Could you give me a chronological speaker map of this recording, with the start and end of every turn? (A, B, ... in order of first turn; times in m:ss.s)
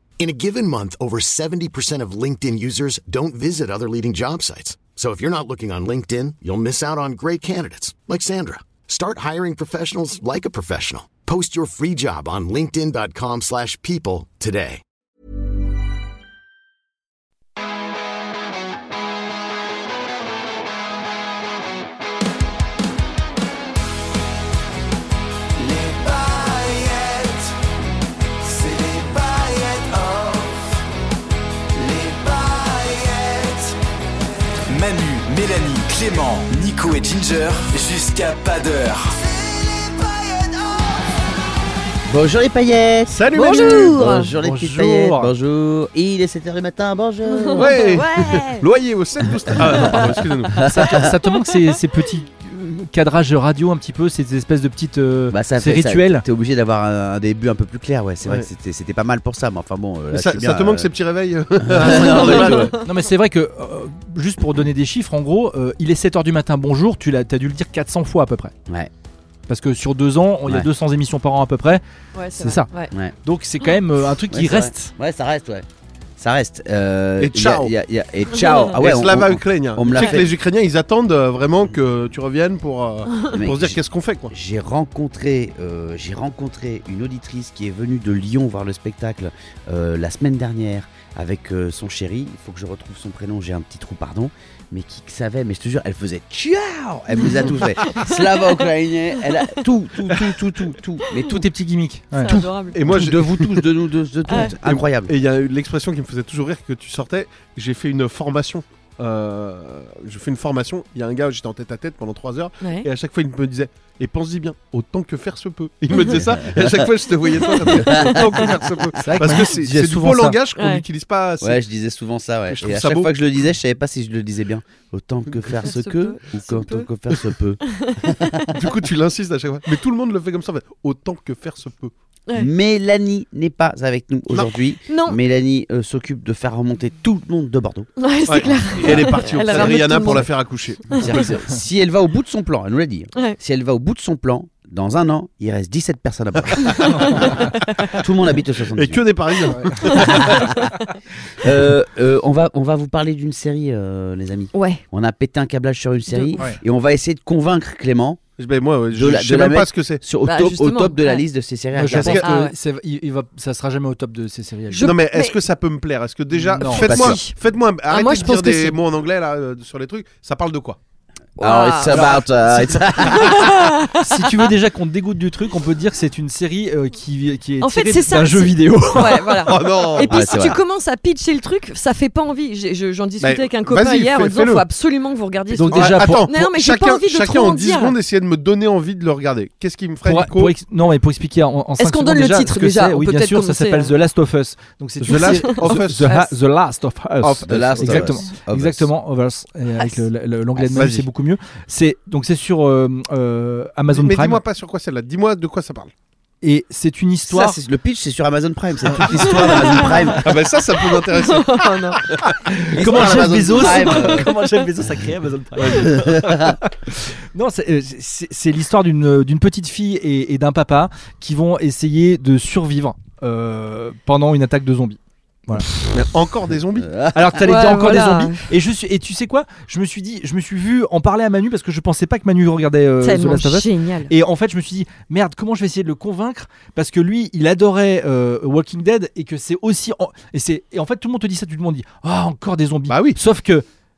0:00.2-0:14.8 A
0:25.6-0:27.6 B
0:28.4-0:30.8 B
0:31.7-0:33.8 B
0:34.7-0:41.2 B
0:42.1-0:47.8 C
0:43.0-0:43.9 D
0:43.3-0:44.3 E
0:44.4-0:45.3 F
0:47.3-0:48.6 E
0:47.6-0:50.7 D
0:49.6-0:50.0 C
0:49.8-0:50.0 E
0:50.6-0:51.1 C
0:50.6-0:56.2 F
0:51.2-0:51.7 E
0:55.3-1:00.9 C
1:00.1-1:02.7 D
1:01.6-1:02.8 C
1:01.8-1:02.9 E
1:02.8-1:08.5 F
1:09.5-1:11.8 F
1:12.1-1:12.9 E
1:12.4-1:12.7 F
1:13.2-1:14.9 F
1:14.3-1:15.6 C
1:16.2-1:20.3 C
1:17.2-1:17.7 D
1:18.4-1:18.7 E
1:18.7-1:24.3 D
1:19.9-1:20.2 E
1:23.3-1:41.5 C
1:37.2-1:38.2 E
1:41.1-1:42.3 F
1:42.1-1:42.8 E
1:42.7-1:43.6 D
1:42.8-1:45.1 C
1:44.3-1:44.5 E
1:44.6-2:01.6 D
1:52.6-1:52.9 E
1:56.0-1:56.9 C
1:57.5-1:58.5 E
1:57.6-1:59.8 C
1:59.2-2:00.4 F
2:00.6-2:00.8 E
2:01.4-2:08.5 C
2:02.5-2:03.1 D
2:05.6-2:06.9 E
2:07.6-2:08.6 E
2:08.5-2:11.9 D
2:12.4-2:19.8 C
2:14.9-2:15.2 E
2:18.0-2:20.3 E
2:18.3-2:21.2 D
2:20.9-2:29.0 C
2:26.7-2:27.3 D
2:28.7-2:30.5 D
2:29.4-2:30.0 F
2:29.8-2:30.9 E
2:30.2-2:30.5 C
2:31.4-2:38.2 C
2:34.5-2:34.8 E
2:36.1-2:36.5 E
2:38.4-2:40.0 D
2:38.9-2:42.2 C
2:40.2-2:41.2 E
2:41.7-2:44.9 F
2:42.0-2:42.5 E
2:44.7-2:45.4 E
2:44.8-2:50.8 D
2:46.4-2:46.8 F
2:46.7-2:47.2 C
2:46.8-2:47.3 E
2:47.9-2:48.8 E
2:51.4-2:52.3 E
2:51.4-2:53.7 C
2:51.9-2:52.8 F
2:52.8-2:54.5 E
2:54.0-2:59.6 F
2:57.6-3:08.0 E
2:59.4-3:00.2 D
3:00.0-3:00.6 C
3:03.2-3:04.6 D
3:05.5-3:06.3 F
3:05.7-3:10.5 D
3:10.0-3:24.4 F
3:11.8-3:13.9 E
3:15.0-3:16.1 D
3:15.1-3:16.3 E
3:17.2-3:18.9 C
3:20.7-3:21.0 D
3:23.9-3:25.9 D
3:26.4-3:27.6 F
3:27.2-3:30.4 C
3:29.0-3:29.8 F
3:29.2-3:30.1 E
3:29.7-3:32.3 D
3:31.1-3:32.0 E
3:32.4-3:45.7 F
3:32.7-3:34.3 C
3:33.5-3:34.5 E
3:35.6-3:35.9 D
3:35.7-3:36.6 C
3:45.8-3:46.9 D
3:46.7-3:47.4 C
3:47.1-4:03.6 F
3:47.4-3:48.5 E
3:53.0-3:54.1 E
4:02.9-4:03.2 D